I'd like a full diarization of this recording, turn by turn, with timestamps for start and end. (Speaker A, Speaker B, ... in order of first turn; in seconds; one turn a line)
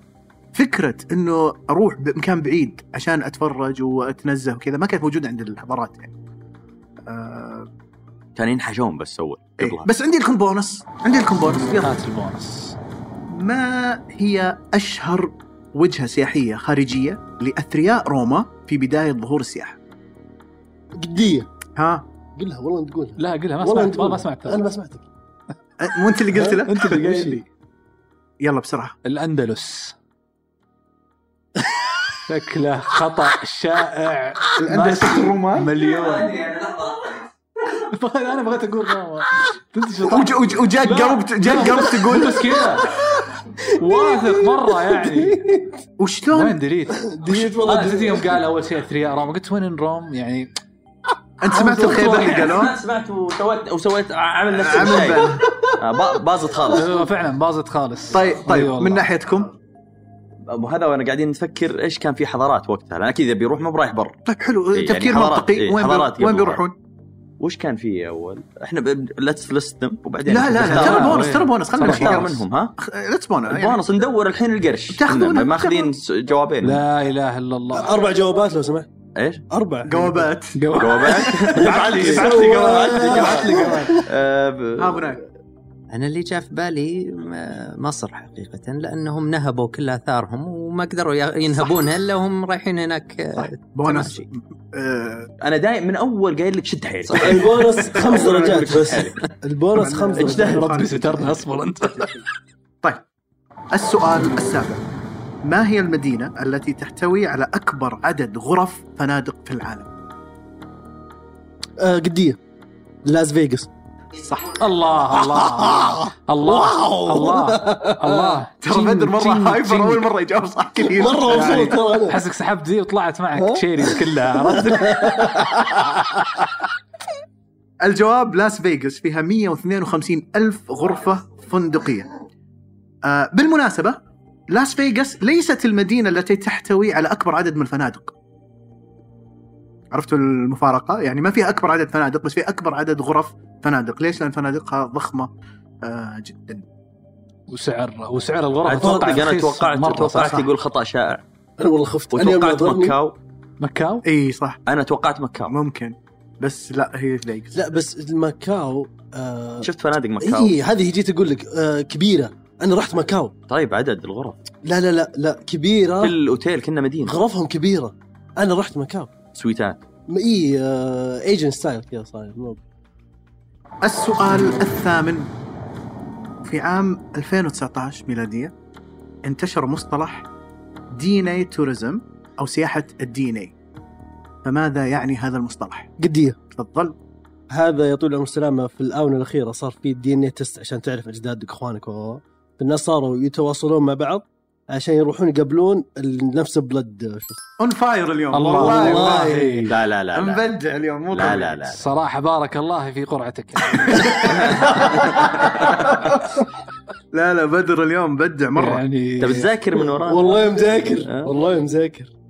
Speaker A: 0.5-6.1
Speaker A: 7.0-7.7
Speaker B: 8.3-9.9
Speaker A: 9.6-11.9
Speaker C: 11.8-12.8
Speaker A: 13.3-19.8
Speaker D: 21.0-21.5
Speaker A: 21.7-22.1
Speaker D: 22.4-25.1
Speaker C: 23.2-24.6
Speaker A: 25.8-27.4
Speaker D: 26.3-26.6
Speaker C: 26.6-27.4
Speaker A: 28.4-28.9
Speaker C: 29.0-29.9
Speaker C: 32.3-36.4
Speaker A: 34.6-35.7
Speaker B: 35.8-37.3
Speaker C: 37.8-42.9
Speaker A: 40.0-42.5
Speaker D: 43.6-45.7
Speaker C: 43.7-45.6
Speaker A: 46.0-46.6
Speaker C: 46.3-50.5
Speaker D: 46.9-48.4
Speaker A: 51.4-52.7
Speaker C: 51.5-52.5
Speaker B: 51.9-56.9
Speaker A: 54.5-55.4
Speaker C: 56.7-59.1
Speaker A: 58.1-59.5
Speaker B: 60.5-64.2
Speaker A: 64.2-66.7
Speaker B: 64.7-66.6
Speaker B: 67.4-72.7
Speaker A: 70.2-73.8
Speaker C: 70.6-72.3
Speaker B: 73.5-76.8
Speaker A: 74.9-75.9
Speaker C: 76.6-78.0
Speaker D: 77.7-78.9
Speaker B: 79.2-79.4
Speaker D: 79.5-80.3
Speaker A: 79.8-84.0
Speaker C: 80.5-81.7
Speaker B: 80.7-85.2
Speaker D: 81.5-84.1
Speaker A: 84.8-85.2
Speaker E: 85.9-94.3
Speaker A: 93.3-95.3
Speaker B: 95.4-99.2
Speaker D: 97.1-100.7
Speaker A: 98.0-98.3
Speaker A: 99.7-102.1
Speaker C: 100.2-102.2
Speaker A: 103.7-104.8
Speaker A: 105.4-109.9
Speaker D: 111.8-112.4
Speaker D: 113.0-113.7
Speaker A: 114.2-114.6
Speaker C: 114.5-120.1
Speaker D: 115.2-118.4
Speaker A: 118.6-121.7
Speaker D: 120.8-122.2
Speaker C: 121.3-125.7
Speaker D: 123.3-125.7
Speaker A: 127.8-132.1
Speaker A: 133.0-134.0
Speaker A: 134.5-138.1
Speaker A: 139.9-145.3
Speaker A: 145.8-146.6
Speaker C: 147.5-150.5
Speaker B: 148.6-151.2
Speaker D: 148.7-149.2
Speaker D: 151.6-152.9
Speaker B: 152.1-153.2
Speaker C: 153.6-154.0
Speaker A: 154.0-154.6
Speaker B: 154.7-155.5
Speaker A: 155.5-157.6
Speaker D: 157.5-163.3
Speaker B: 159.6-160.6
Speaker B: 163.5-164.4
Speaker D: 164.6-166.1
Speaker B: 166.0-167.2
Speaker D: 167.0-169.1
Speaker B: 169.3-169.8
Speaker D: 170.1-172.6
Speaker A: 173.8-175.3
Speaker A: 176.4-178.5
Speaker A: 179.2-180.3
Speaker A: 180.9-183.5
Speaker A: 184.4-185.9
Speaker D: 186.0-186.4
Speaker A: 186.5-186.9
Speaker D: 187.5-197.4
Speaker A: 197.6-199.5
Speaker C: 198.3-199.7
Speaker D: 198.5-199.7
Speaker B: 199.7-200.4
Speaker A: 200.1-201.6
Speaker B: 201.1-201.8
Speaker C: 201.7-204.8
Speaker A: 203.7-204.8
Speaker D: 204.8-205.2
Speaker A: 207.1-208.8
Speaker C: 208.6-209.5
Speaker B: 209.2-210.4
Speaker D: 209.8-212.1
Speaker B: 211.1-211.3